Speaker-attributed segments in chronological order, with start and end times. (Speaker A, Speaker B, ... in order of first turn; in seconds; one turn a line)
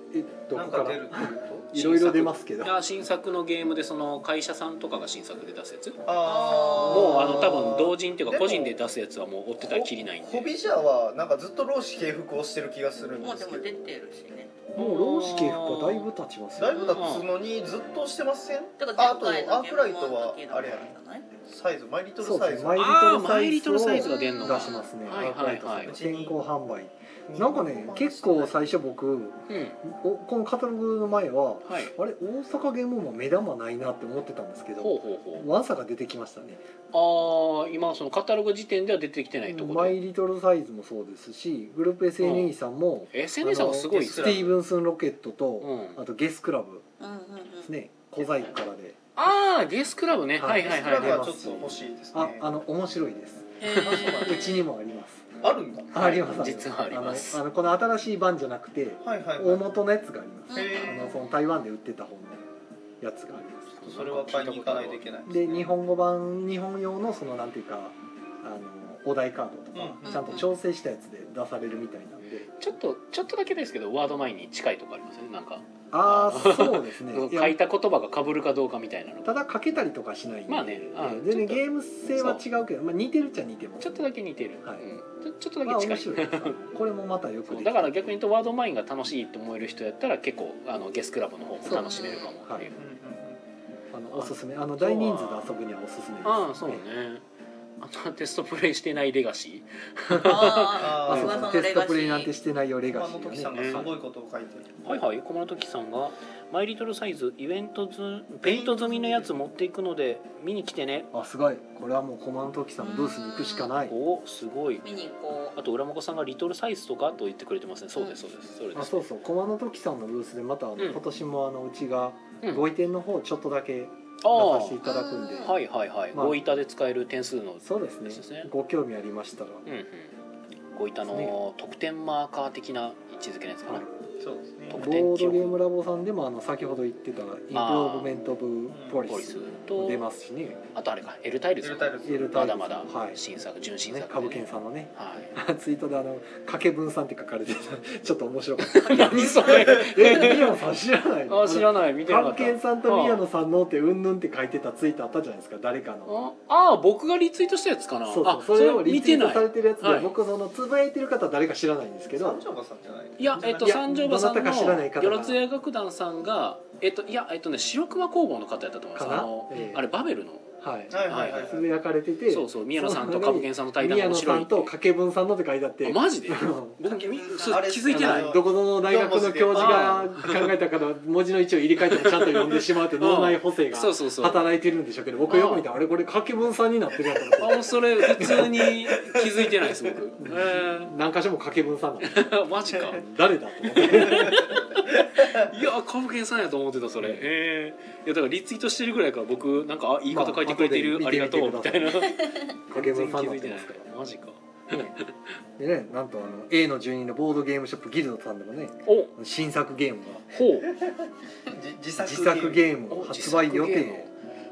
Speaker A: 0.1-2.8
Speaker B: 0.5-1.7
Speaker C: 1.7-6.0
Speaker B: 6.0-8.8
Speaker D: 6.2-7.4
Speaker C: 6.9-10.5
Speaker A: 7.2-7.6
Speaker B: 9.6-13.8
Speaker D: 13.2-14.6
Speaker C: 14.8-16.1
Speaker A: 14.8-16.9
Speaker B: 16.6-22.9
Speaker D: 16.7-17.1
Speaker C: 16.9-17.3
Speaker D: 18.8-21.2
Speaker A: 22.2-36.6
Speaker C: 22.8-26.0
Speaker D: 23.9-24.9
Speaker B: 25.8-26.4
Speaker B: 27.3-28.6
Speaker C: 29.5-29.8
Speaker C: 31.6-31.9
Speaker C: 34.8-35.5
Speaker C: 36.9-40.0
Speaker A: 39.5-46.8
Speaker C: 42.2-42.5
Speaker C: 43.1-44.5
Speaker B: 43.9-44.5
Speaker C: 45.6-46.0
Speaker D: 47.0-47.7
Speaker A: 47.6-49.0
Speaker C: 49.1-51.3
Speaker A: 50.4-55.3
Speaker B: 50.5-52.5
Speaker C: 53.6-54.4
Speaker B: 53.7-54.6
Speaker B: 55.4-56.3
Speaker A: 55.9-62.4
Speaker C: 56.0-57.4
Speaker B: 59.0-59.7
Speaker D: 60.5-61.3
Speaker B: 60.5-61.1
Speaker A: 63.0-64.3
Speaker C: 63.7-65.1
Speaker B: 63.8-65.7
Speaker A: 65.3-72.5
Speaker B: 69.7-70.4
Speaker D: 70.0-70.5
Speaker C: 72.5-79.3
Speaker A: 75.9-77.6
Speaker A: 79.2-84.0
Speaker C: 80.5-82.4
Speaker C: 83.8-86.6
Speaker A: 85.6-88.0
Speaker C: 87.5-92.8
Speaker A: 91.6-92.7
Speaker D: 91.7-92.3
Speaker B: 92.7-93.4
Speaker A: 93.9-96.8
Speaker C: 94.1-95.5
Speaker C: 96.2-97.2
Speaker C: 97.8-100.9
Speaker D: 100.1-102.3
Speaker B: 100.7-101.6
Speaker A: 101.0-104.0
Speaker B: 102.9-104.8
Speaker C: 103.5-103.9
Speaker C: 104.8-111.1
Speaker B: 108.4-109.3
Speaker A: 111.1-113.9
Speaker D: 112.8-113.7
Speaker C: 113.9-114.8
Speaker D: 114.8-115.5
Speaker C: 115.5-119.0
Speaker A: 118.7-125.6
Speaker C: 120.8-121.0
Speaker C: 124.2-124.8
Speaker D: 124.8-125.5
Speaker C: 125.4-128.5
Speaker A: 126.1-126.4
Speaker A: 127.6-129.6
Speaker C: 129.7-130.1
Speaker C: 130.7-133.8
Speaker A: 131.0-131.3
Speaker B: 134.2-134.8
Speaker C: 134.7-135.6
Speaker A: 134.7-140.6
Speaker C: 137.5-138.1
Speaker B: 138.7-139.0
Speaker C: 139.0-140.1
Speaker C: 140.7-145.3
Speaker B: 141.6-142.4
Speaker A: 142.0-143.2
Speaker A: 143.8-156.2
Speaker C: 148.6-150.7
Speaker C: 151.3-153.2
Speaker C: 156.1-160.1
Speaker A: 158.1-162.4
Speaker B: 162.1-163.8
Speaker C: 163.2-171.5
Speaker A: 163.3-165.4
Speaker A: 168.9-169.8
Speaker A: 170.6-177.0
Speaker B: 170.9-171.7
Speaker C: 172.3-174.7
Speaker C: 175.8-178.4
Speaker B: 177.2-180.0
Speaker A: 177.9-188.5
Speaker C: 179.5-180.4
Speaker C: 181.9-184.4
Speaker C: 185.3-185.7
Speaker C: 187.4-190.9
Speaker B: 189.0-189.3
Speaker A: 190.2-194.4
Speaker C: 192.0-193.0
Speaker C: 193.7-205.3
Speaker B: 194.0-195.5
Speaker A: 200.1-202.1
Speaker A: 202.7-203.8
Speaker A: 204.7-204.9
Speaker A: 205.6-210.3
Speaker C: 208.8-209.1
Speaker C: 210.3-210.7
Speaker B: 211.5-212.7
Speaker A: 212.0-214.1
Speaker C: 212.9-214.1